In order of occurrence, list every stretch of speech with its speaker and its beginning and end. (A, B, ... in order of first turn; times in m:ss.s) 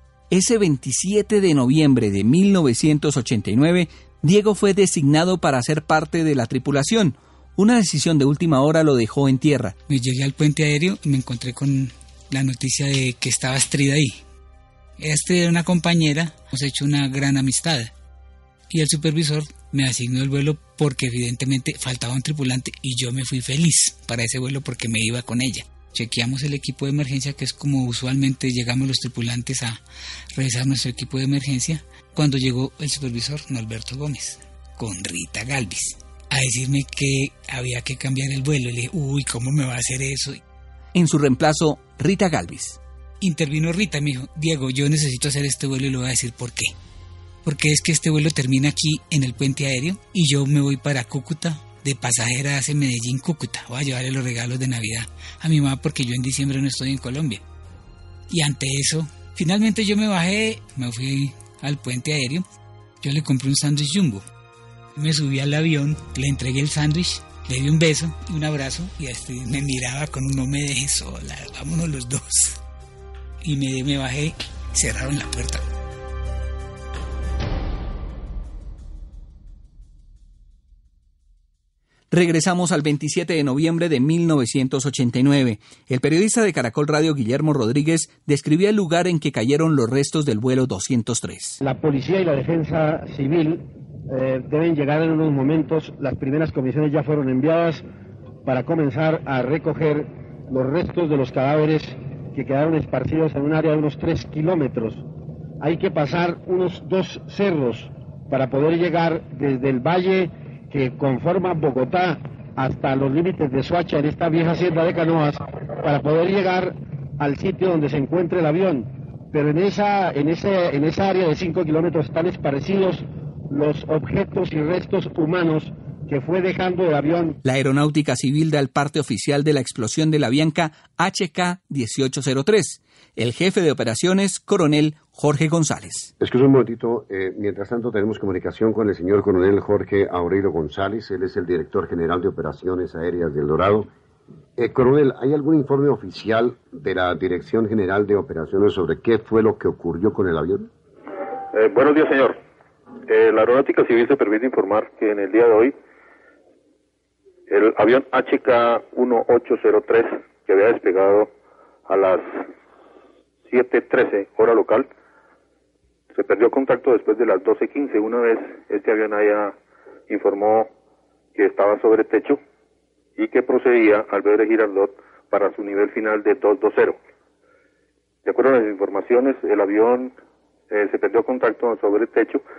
0:00.3-0:09.8 A
0:09.9-0:14.2 B
0:15.0-0:17.9 B
0:18.7-0:29.8 B
0:30.4-0:40.4 B
0:40.9-0:42.8 A
0:43.2-0:46.7 B
0:47.4-0:57.4 B
0:58.3-1:02.4 B
1:03.0-1:04.2 B
1:05.0-1:12.6 B
1:13.4-1:15.7 B
1:22.1-1:31.6 A
1:31.6-1:37.8 C
1:38.4-1:45.0 C
1:45.6-2:07.4 C
2:07.4-2:16.1 A
2:16.2-2:23.9 D
2:24.6-2:30.7 D
2:31.5-2:32.4 E
2:33.1-2:35.7 E
2:37.5-2:41.3 E
2:41.9-2:42.5 E
2:43.5-2:44.9 E
2:46.1-2:49.6 E
2:50.1-2:50.7 E
2:51.4-2:52.4 E
2:53.2-2:57.0 E
2:58.2-3:00.1 E
3:00.7-3:02.4 E